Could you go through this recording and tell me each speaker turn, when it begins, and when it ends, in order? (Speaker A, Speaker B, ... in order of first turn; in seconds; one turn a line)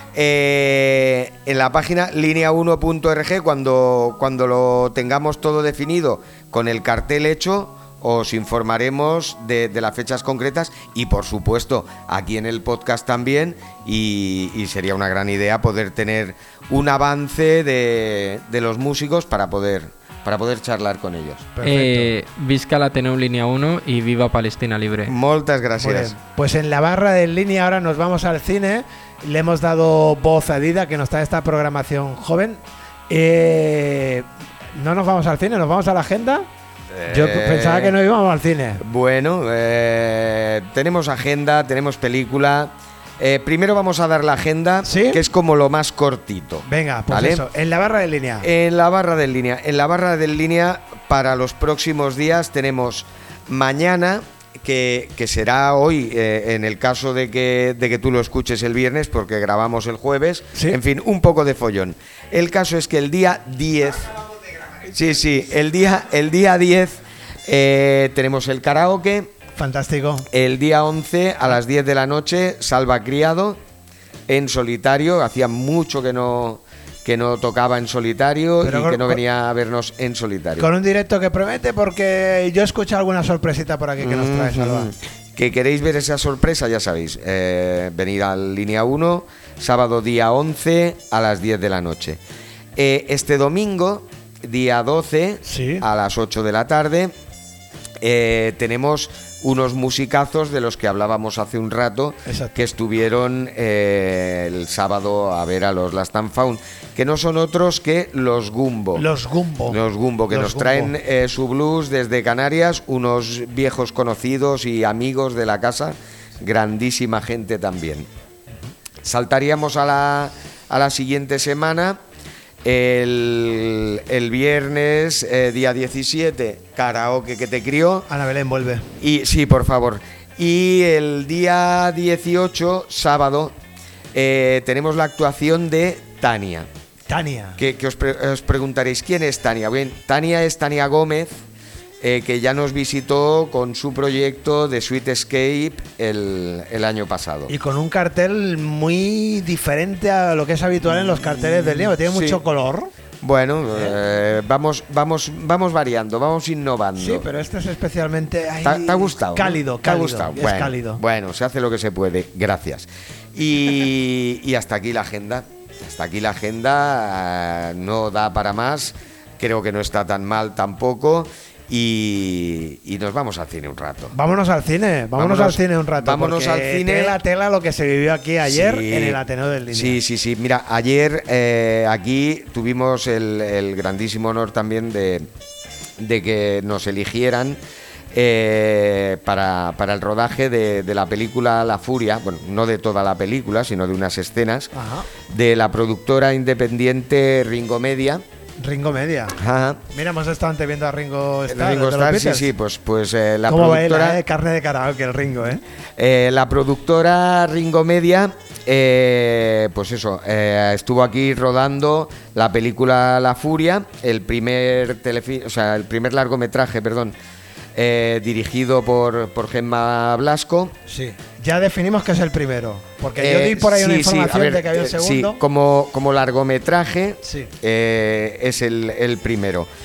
Speaker A: 0.1-21.5
Speaker B: 21.6-22.1
Speaker C: 21.6-25.1
Speaker A: 25.1-26.1
Speaker B: 25.8-36.5
Speaker A: 37.0-38.0
Speaker B: 37.1-38.8
Speaker A: 38.8-47.5
Speaker B: 44.8-45.2
Speaker B: 46.7-48.5
Speaker A: 48.4-69.3
Speaker B: 69.6-70.3
Speaker A: 70.3-73.6
Speaker A: 74.3-80.7
Speaker B: 78.6-79.2
Speaker B: 80.6-84.9
Speaker A: 84.0-92.2
Speaker A: 92.8-97.1
Speaker B: 95.5-95.8
Speaker A: 98.0-109.1
Speaker B: 102.3-102.6
Speaker B: 109.0-109.8
Speaker A: 109.7-118.1
Speaker B: 110.3-110.9
Speaker A: 119.0-122.0
Speaker A: 122.6-128.1
Speaker B: 128.1-128.9
Speaker A: 129.0-133.6
Speaker A: 134.1-136.7
Speaker B: 137.1-137.6
Speaker A: 137.6-141.4
Speaker A: 142.0-147.5
Speaker B: 147.5-152.9
Speaker A: 151.2-152.4
Speaker A: 153.2-157.3
Speaker B: 157.0-161.0
Speaker A: 158.6-174.2
Speaker B: 174.1-180.0
Speaker A: 175.2-177.2
Speaker A: 178.4-185.3
Speaker A: 186.0-187.6
Speaker A: 188.1-194.7
Speaker B: 194.7-195.1
Speaker A: 195.2-198.2
Speaker B: 198.6-199.4
Speaker A: 199.4-199.8
Speaker B: 199.9-202.5
Speaker A: 201.5-204.2
Speaker B: 203.5-205.6
Speaker A: 206.0-217.2
Speaker A: 217.8-220.8
Speaker B: 220.9-225.4
Speaker A: 223.2-229.7
Speaker B: 227.2-227.5